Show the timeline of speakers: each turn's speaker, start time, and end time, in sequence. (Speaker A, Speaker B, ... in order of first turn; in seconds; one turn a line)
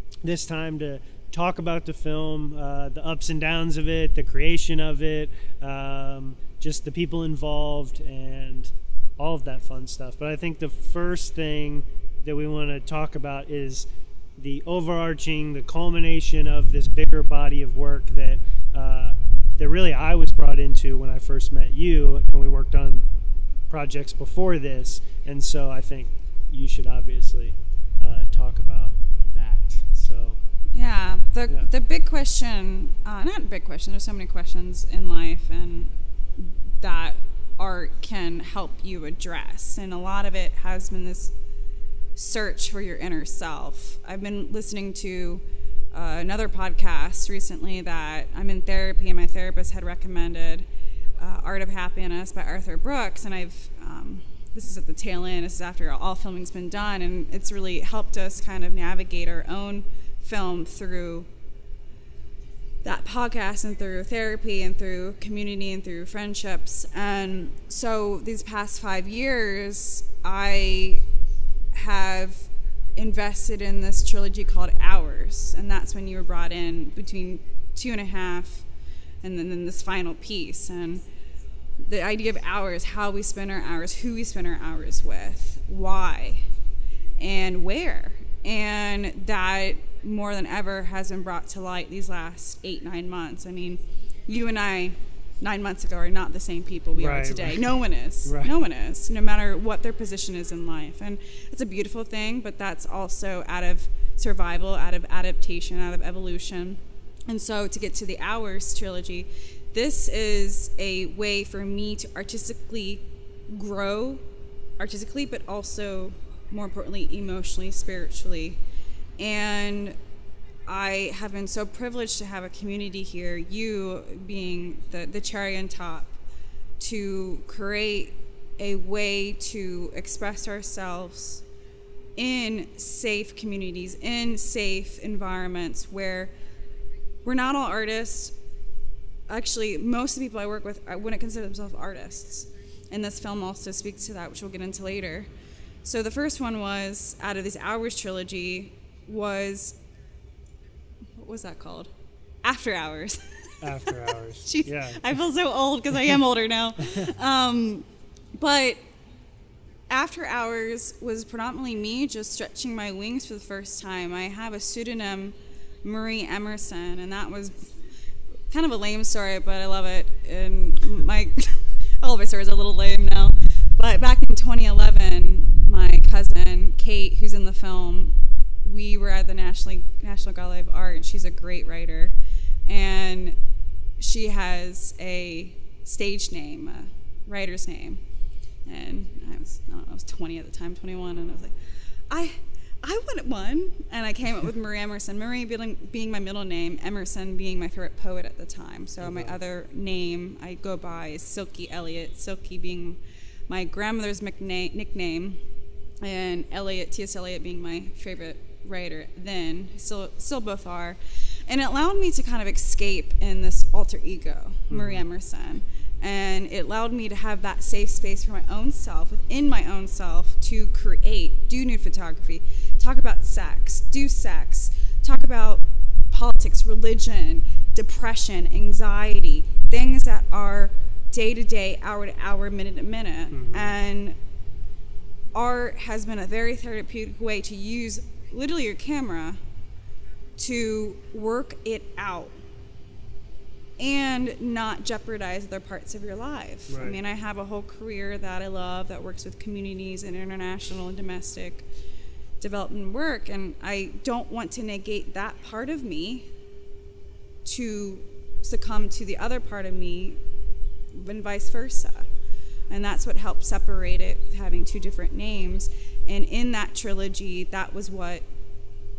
Speaker A: 0.2-23.1
Speaker A: 23.7-30.4
Speaker B: 30.7-41.3
Speaker B: 42.1-50.6
Speaker B: 51.2-61.3
Speaker B: 62.8-71.0
Speaker B: 71.7-78.7
Speaker B: 79.2-81.0
Speaker B: 81.8-86.4
Speaker B: 87.2-114.2
Speaker A: 96.9-98.5
Speaker B: 114.8-118.6
Speaker B: 119.2-120.0
Speaker B: 120.7-126.2
Speaker B: 126.8-131.4
Speaker B: 132.2-136.3
Speaker B: 137.2-138.3
Speaker B: 139.3-145.3
Speaker B: 145.8-149.8
Speaker B: 151.2-151.9
Speaker B: 152.4-157.8
Speaker A: 153.6-155.1
Speaker B: 158.4-158.8
Speaker B: 159.9-167.7
Speaker B: 168.5-182.1
Speaker B: 182.7-183.3
Speaker B: 184.0-188.0
Speaker B: 188.7-191.5
Speaker B: 192.1-205.4
Speaker A: 199.0-199.4
Speaker B: 206.0-234.2
Speaker A: 214.7-215.1
Speaker A: 233.3-233.7
Speaker B: 235.3-239.4
Speaker B: 240.4-242.3
Speaker B: 243.8-251.6
Speaker A: 246.7-247.0
Speaker B: 252.4-256.2
Speaker B: 257.4-260.2
Speaker B: 260.9-262.1
Speaker B: 262.7-268.2